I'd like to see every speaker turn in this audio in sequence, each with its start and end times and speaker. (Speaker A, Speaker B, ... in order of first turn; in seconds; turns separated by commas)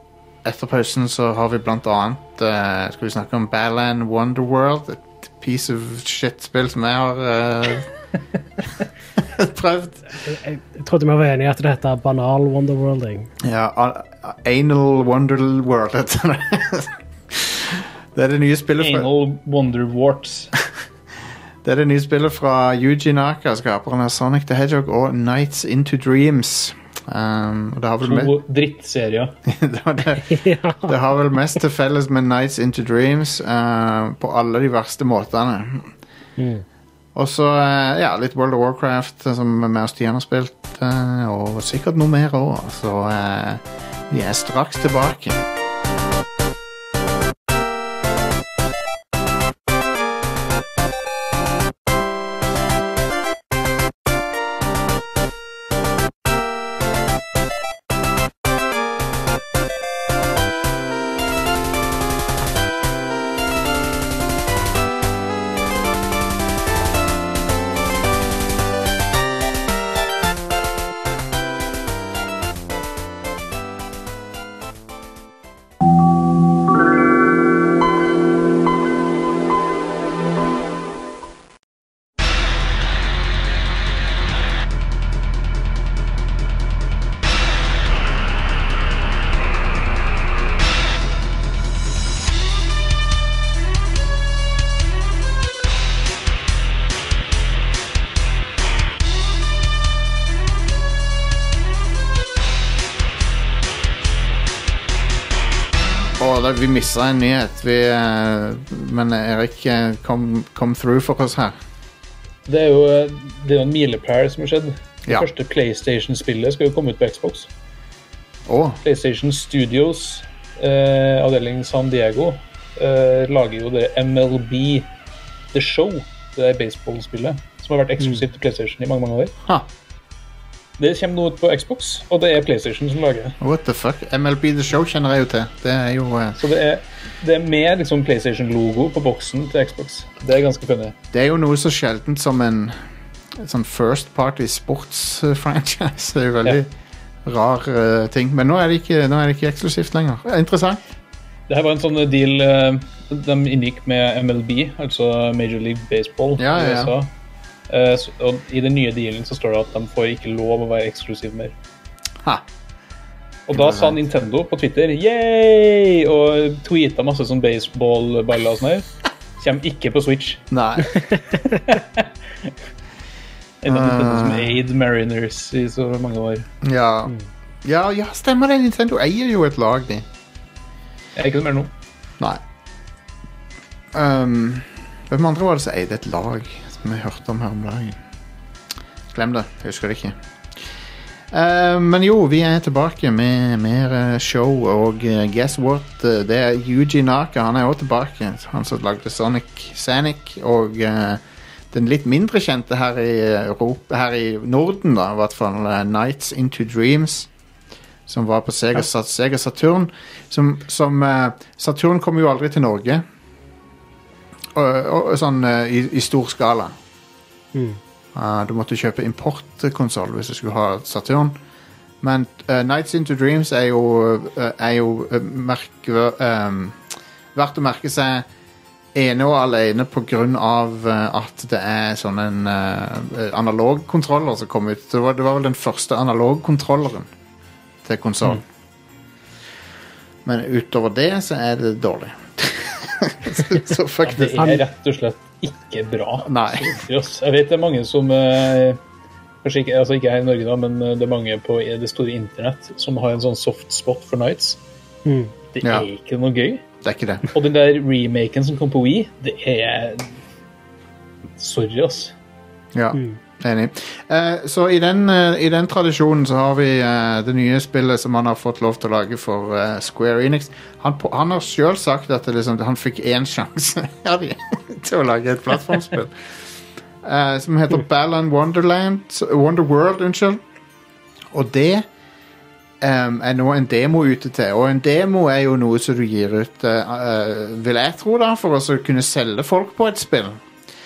Speaker A: 0.4-7.9, Speaker A: 9.2-10.0, Speaker B: 10.2-13.3, Speaker A: 13.4-19.1, Speaker C: 18.8-20.5, Speaker A: 21.6-28.3, Speaker C: 28.0-29.4, Speaker A: 29.5-30.3, Speaker B: 30.2-30.9, Speaker A: 30.8-35.9, Speaker B: 36.4-36.6, Speaker A: 37.1-45.4, Speaker A: 106.2-111.5, Speaker C: 112.5-117.5, Speaker A: 118.5-118.8, Speaker C: 118.8-124.9, Speaker C: 125.5-129.3, Speaker C: 130.8-133.4, Speaker A: 133.4-136.4, Speaker C: 136.3-140.9, Speaker A: 141.1-142.8, Speaker A: 143.3-146.7, Speaker A: 147.2-150.8, Speaker C: 151.5-157.1, Speaker A: 156.4-156.9, Speaker C: 157.7-161.5, Speaker C: 163.5-168.9, Speaker A: 163.5-164.0, Speaker C: 169.4-170.4, Speaker A: 170.5-171.0, Speaker C: 171.4-172.5, Speaker C: 173.6-176.5, Speaker A: 173.7-174.6, Speaker A: 176.6-180.1, Speaker C: 181.2-181.7, Speaker A: 183.9-188.0, Speaker A: 189.1-190.2, Speaker A: 191.3-207.3, Speaker A: 208.1-213.0, Speaker A: 214.5-216.7, Speaker A: 218.1-221.4, Speaker A: 222.0-226.8, Speaker A: 227.3-228.3, Speaker A: 228.9-237.1, Speaker A: 237.8-238.4, Speaker A: 240.2-244.5, Speaker C: 244.0-248.8, Speaker A: 246.2-246.8, Speaker C: 249.4-254.6, Speaker B: 255.1-255.3, Speaker C: 255.5-256.6, Speaker A: 255.6-255.9, Speaker A: 256.8-257.2, Speaker C: 257.3-260.1, Speaker C: 261.4-262.1, Speaker A: 262.7-276.1, Speaker A: 277.0-280.4, Speaker A: 281.3-281.9, Speaker A: 282.8-290.4